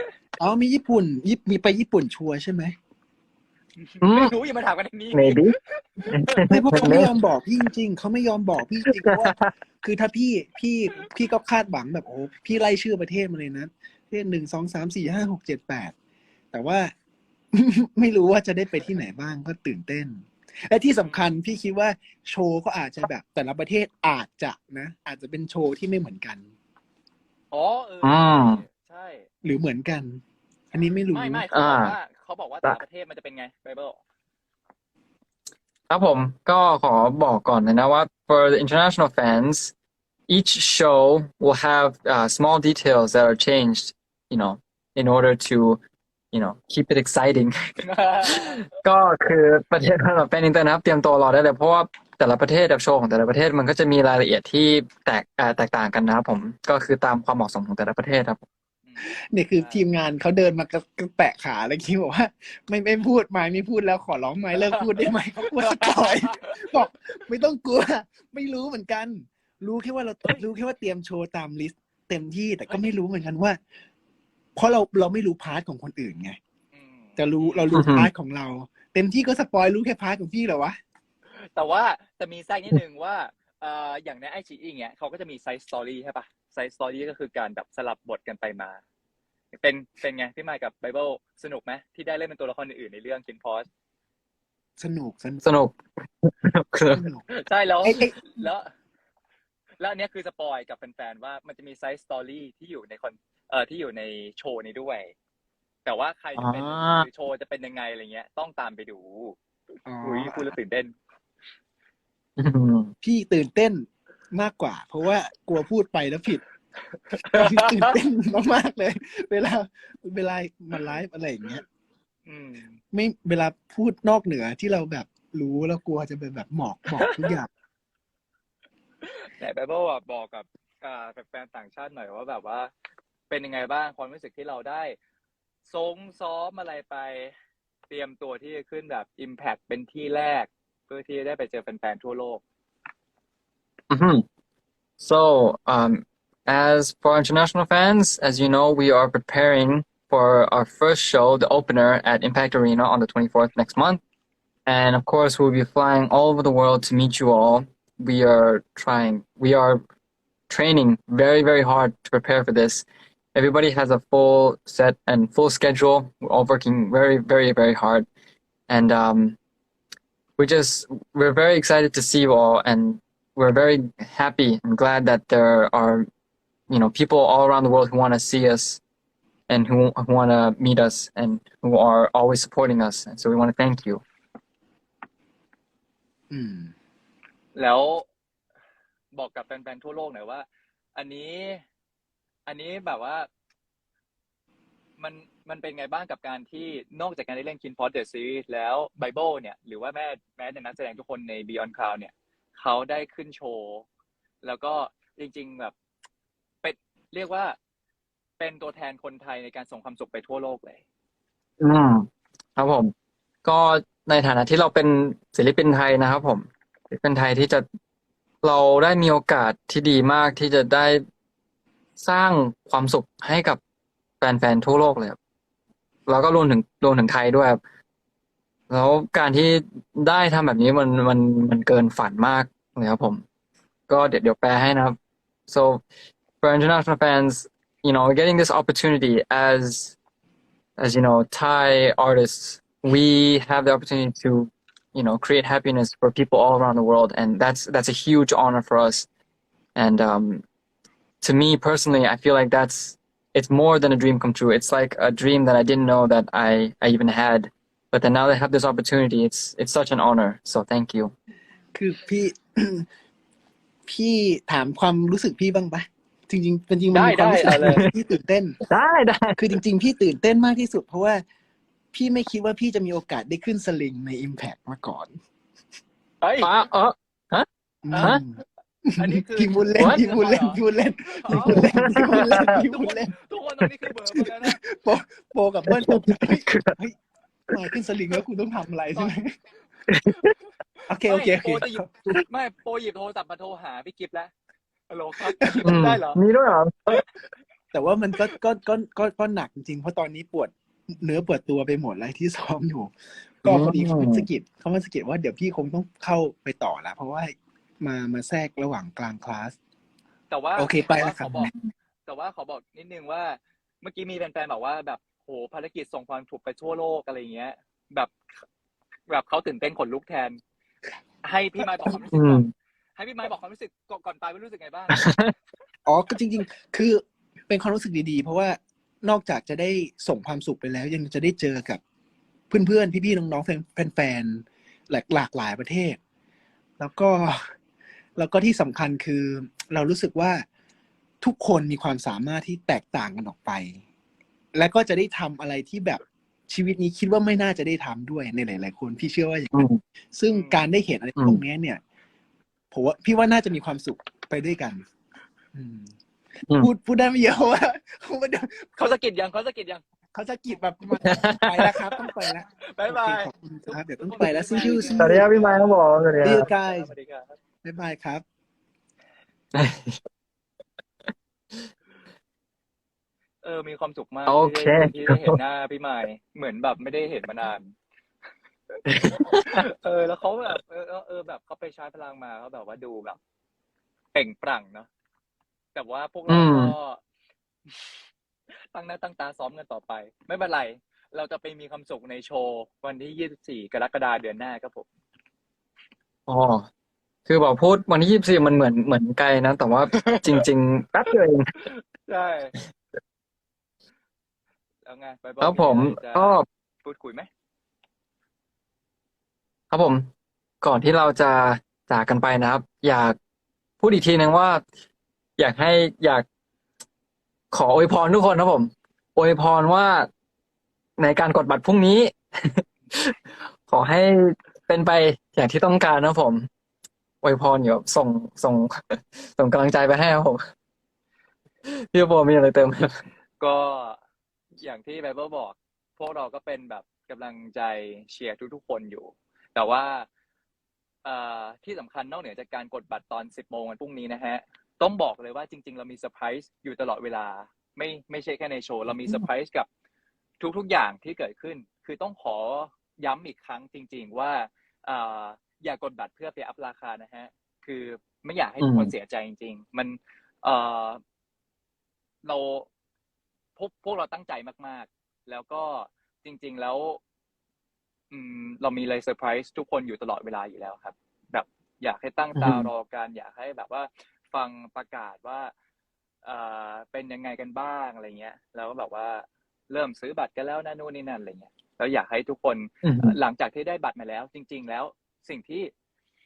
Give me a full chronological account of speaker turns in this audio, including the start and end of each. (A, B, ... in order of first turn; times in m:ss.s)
0:00.4-0:02.8 A
0:03.8-0:06.9 B
0:04.0-0:04.3 C
0:05.1-0:07.1 C
0:06.5-0:16.0 A
0:08.9-0:09.5 C
0:16.5-0:17.0 A
0:17.5-0:26.5 A
0:21.0-0:21.3 B
0:27.5-0:29.3 B
0:28.0-0:28.6 C
0:29.4-0:31.4 A
0:31.1-0:34.0 B
0:31.5-0:32.0 C
0:35.9-0:39.7 C
0:40.3-0:45.8 C
0:46.3-0:47.6 C
0:47.8-0:48.6 B
0:48.2-0:58.4 C
0:58.8-0:59.9 B
0:59.0-1:13.6 A
1:04.6-1:06.6 B
1:14.6-1:16.4 A
1:16.7-1:17.7 B
1:17.2-1:20.8 A
1:17.7-1:18.1 C
1:21.4-1:28.8 B
1:29.6-1:33.7 B
1:34.8-1:35.4 A
1:35.4-1:37.0 C
1:36.9-1:37.2 A
1:37.3-1:38.7 B
1:37.8-1:38.2 A
1:39.8-1:45.1 B
1:45.8-1:49.4 B
1:46.4-1:47.1 C
1:49.9-1:50.6 A
1:50.0-1:50.9 B
1:52.4-1:52.9 C
1:53.0-1:56.4 A
1:57.1-1:58.0 B
1:57.2-2:01.6 A
2:02.3-2:02.8 B
2:02.9-2:07.5 A
2:07.0-2:07.4 B
2:09.1-2:12.7 B
2:13.3-2:15.0 B
2:15.7-2:17.3 B
2:17.9-2:22.4 B
2:23.9-2:24.2 C
2:25.0-2:34.0 C
2:34.7-2:39.8 C
2:40.5-2:48.1 C
2:48.7-2:49.4 C
2:50.4-2:56.1 C
2:56.7-2:58.8 C
2:59.5-3:04.0 C
3:06.3-3:06.7 A
3:07.6-3:08.1 B
3:09.2-3:11.6 B
3:12.5-3:13.3 B
3:15.0-3:23.8 B
3:24.4-3:25.7 B
3:26.6-3:27.6 B
3:28.4-3:30.8 B
3:31.6-3:32.9 C
3:33.4-3:37.6 C
3:38.4-3:41.0 C
3:42.0-3:43.6 C
3:44.2-3:45.2 C
3:46.1-3:47.6 C
3:48.7-3:53.2 C
3:53.9-3:55.0 C
3:55.5-3:55.8 C
3:56.4-4:00.0 C
4:00.8-4:09.1 C
4:09.8-4:10.4 C
4:11.2-4:21.1 C
4:21.7-4:22.9 A
4:23.9-4:28.6 A
4:26.9-4:27.8 B
4:27.5-4:27.9 C
4:28.7-4:29.4 C
4:29.4-4:31.2 A
4:31.9-4:35.2 A
4:36.2-4:36.5 B
4:36.4-4:37.5 C
4:37.8-4:43.1 A
4:37.9-4:38.2 B
4:39.0-4:44.6 B
4:39.8-4:40.0 C
4:41.3-4:42.6 C
4:44.1-4:47.0 A
4:45.7-4:46.8 C
4:47.5-4:49.3 A
4:49.9-4:50.3 C
4:50.9-4:52.2 A
4:51.0-4:54.3 B
4:54.9-4:56.2 B
4:55.4-4:55.8 A
4:55.6-4:57.0 C
4:57.7-5:09.6 A
5:03.5-5:04.3 C
5:10.3-5:11.5 B
5:10.6-5:11.5 A
5:12.1-5:18.1 B
5:19.1-5:20.4 B
5:21.2-5:22.4 B
5:21.6-5:22.0 A
5:22.1-5:22.5 C
5:23.0-5:25.1 B
5:25.0-5:25.3 C
5:25.9-5:31.8 A
5:32.5-5:36.0 A
5:36.8-5:37.5 A
5:38.2-5:40.5 A
5:41.2-5:43.8 A
5:44.6-5:49.5 A
5:49.5-5:49.8 C
5:50.1-5:51.8 A
5:50.3-5:50.7 B
5:52.7-5:54.8 A
5:55.5-5:55.9 A
5:56.6-5:58.7 A
5:58.8-5:59.8 B
6:00.1-6:05.3 A
6:01.0-6:01.6 C
6:01.9-6:07.4 B
6:05.0-6:06.5 C
6:06.2-6:06.9 A
6:07.6-6:08.2 A
6:09.5-6:10.0 C
6:13.4-6:17.8 B
6:14.3-6:15.4 C
6:18.8-6:23.2 B
6:18.9-6:19.6 C
6:24.1-6:24.9 B
6:25.8-6:27.0 B
6:26.3-6:26.7 C
6:27.7-6:28.0 B
6:28.7-6:34.9 B
6:36.3-6:36.7 C
6:37.3-6:41.6 C
6:39.9-6:40.4 B
6:41.6-6:42.6 B
6:44.8-6:47.3 B
6:45.4-6:46.4 C
6:49.7-6:50.1 C
6:50.6-6:53.2 C
6:53.8-6:54.6 C
6:55.4-6:56.2 C
6:57.5-7:00.1 C
7:01.0-7:03.2 C
7:03.7-7:06.5 C
7:07.2-7:10.4 C
7:11.6-7:13.0 C
7:13.4-7:14.0 B
7:14.6-7:20.1 B
7:21.0-7:29.7 B
7:30.4-7:41.0 B
7:38.6-7:38.9 C
7:42.2-7:42.7 B
7:43.6-7:47.0 B
7:48.1-7:55.5 B
7:52.4-7:52.7 C
7:56.2-8:05.7 B
8:02.8-8:03.2 C